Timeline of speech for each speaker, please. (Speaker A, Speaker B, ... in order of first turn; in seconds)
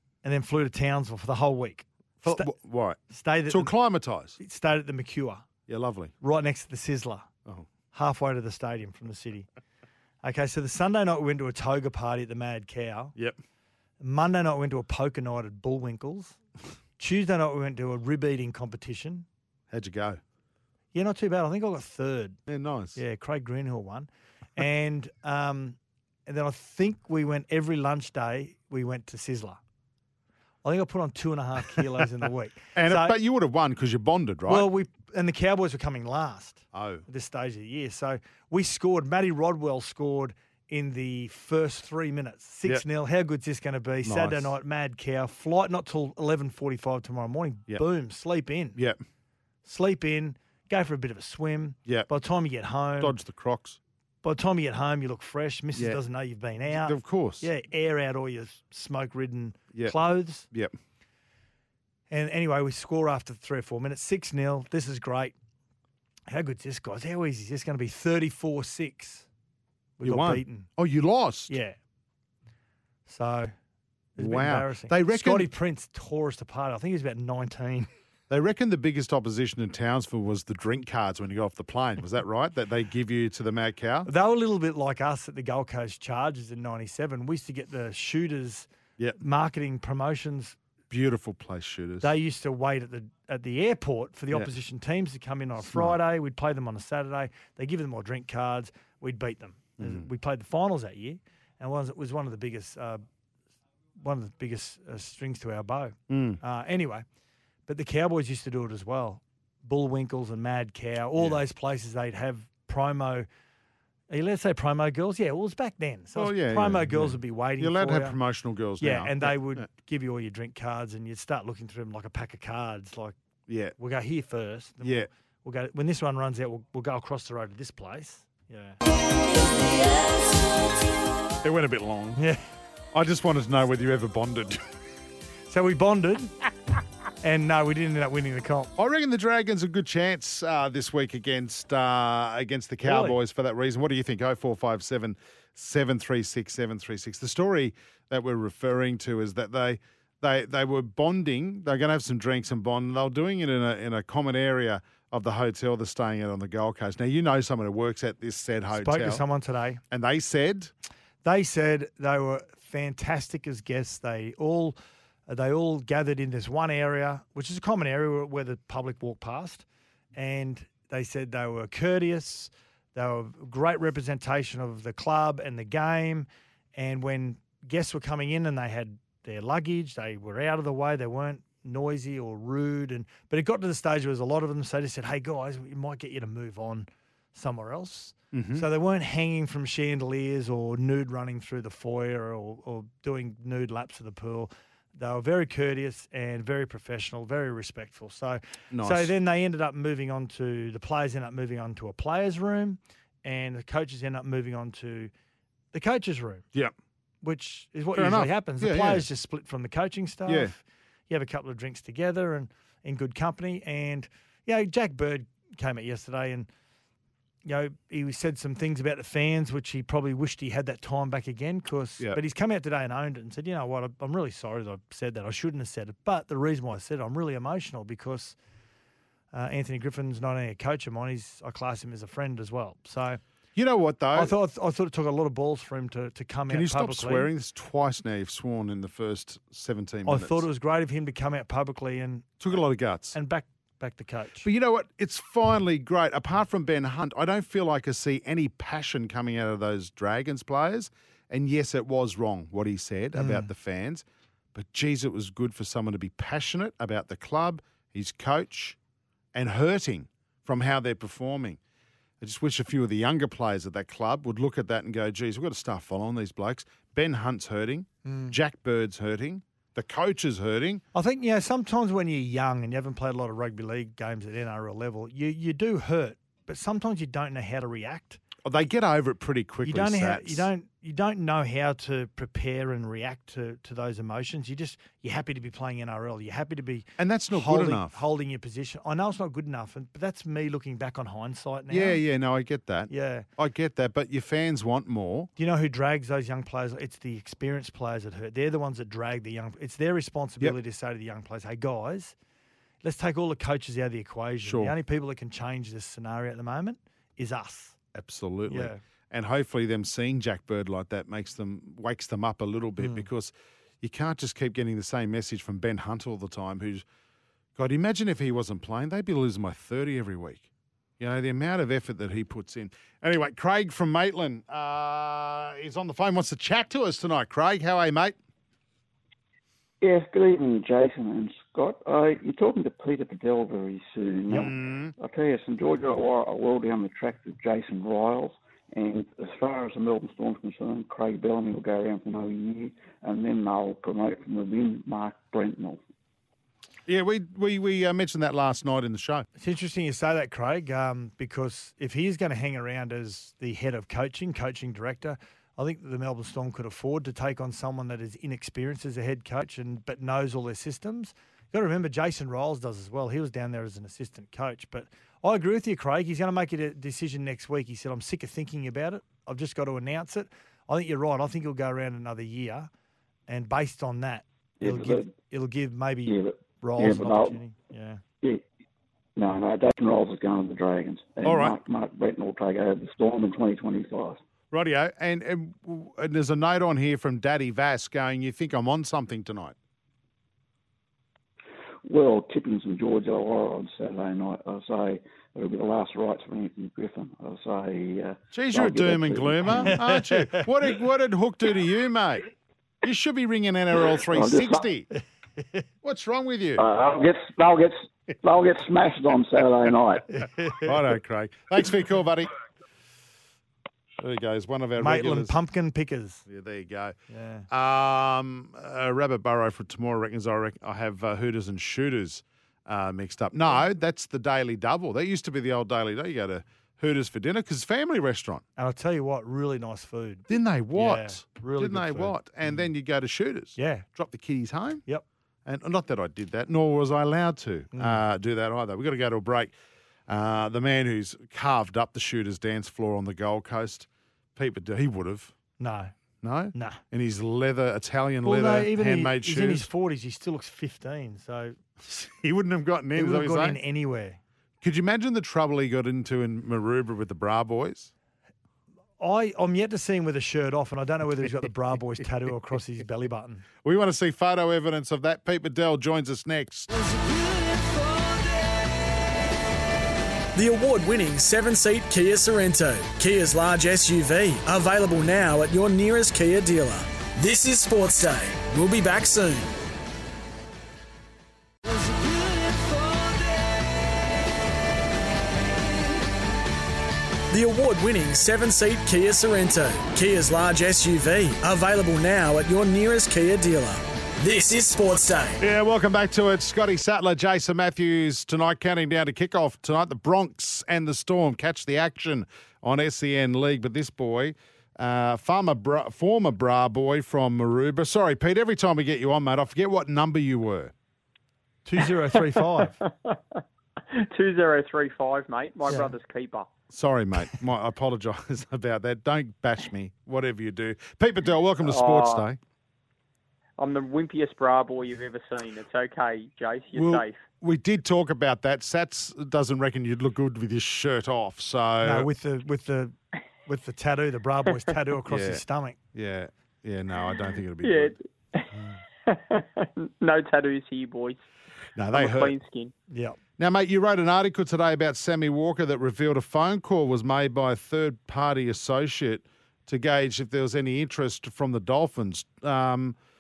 Speaker A: 0.2-2.5, 3.1-3.7, 4.4-5.5, 6.2-7.3, 7.9-9.5, 10.2-13.2, 14.0-16.4, 17.0-19.3, 20.9-22.4, 23.0-29.6, 30.6-33.2, 34.5-48.8, 49.6-53.2, 54.2-60.5, 62.1-65.3, 66.3-69.3, 70.0-70.7, 71.5-71.8, 73.1-73.5, 74.2-77.9, 84.1-88.7, 89.2-90.6, 92.0-103.0, 104.0-107.0, 107.7-113.3, 114.1-118.2, 118.8-123.2, 123.8-128.8, 132.2-132.4, 135.5-136.3, 137.2-138.7, 142.8-143.2, 158.7-159.8, 161.2-205.1, 205.7-206.4, 207.2-216.5, 217.4-228.4, 229.3-233.2, 234.2-237.3, 240.1-242.3, 243.1-244.5, 253.2-253.5, 268.1-268.4, 270.9-278.2, 279.6-292.0, 292.9-293.3, 295.4-302.1, 302.8-307.8, 308.5-308.8, 312.8-313.1, 349.4-372.7, 373.3-378.0, 399.7-400.5, 410.1-410.7, 414.8-416.2, 417.1-417.5, 428.6-432.6, 433.6-433.9, 437.7-438.0, 445.6-445.9, 446.5-446.8, 448.2-451.6, 452.9-454.2, 459.0-463.4, 511.6-512.8, 515.7-515.9, 531.8-533.0, 533.5-535.8, 542.9-543.2
Speaker B: 2.2-4.4, 5.7-6.1, 19.7-20.2, 22.5-23.0, 32.8-34.7, 36.7-37.0, 44.0-44.5, 53.0-53.8, 56.7-57.5, 59.7-60.8, 70.0-71.5, 74.2-75.5, 78.3-84.1, 90.9-92.1, 95.6-96.0, 99.8-100.1, 106.1-106.4, 116.2-119.7, 123.5-123.8, 124.8-125.1, 131.4-132.2, 132.9-134.7, 138.8-159.2, 159.9-160.7, 188.3-188.7, 198.7-199.1, 207.9-209.1, 210.3-210.5, 233.6-234.3, 236.5-240.5, 242.4-243.2, 244.4-258.8, 259.3-261.6, 262.2-270.8, 278.4-280.5, 287.0-288.0, 291.7-295.3, 304.4-304.7, 307.9-316.9, 317.6-320.4, 321.0-328.2, 334.3-334.9, 346.9-349.3, 381.2-381.6, 384.5-389.6, 398.3-402.3, 402.8-404.9, 405.8-406.6, 410.6-412.3, 414.0-415.4, 416.3-416.9, 417.5-428.4, 430.3-434.8, 435.4-439.5, 440.1-445.3, 446.2-449.7, 451.8-453.6, 454.6-457.9, 463.6-466.7, 495.4-510.7, 516.7-522.4, 526.8-532.1, 535.1-535.4, 535.9-538.0, 541.8-542.4, 543.4-553.0
Speaker C: 329.8-345.8, 374.6-375.1, 376.1-377.4, 379.2-384.2, 391.8-399.8, 404.1-404.6, 406.6-410.2
Speaker D: 470.4-479.5, 487.3-495.4
Speaker E: 512.8-516.5, 521.6-522.3, 523.6-527.2, 537.6-538.5, 539.1-541.2, 541.9-542.7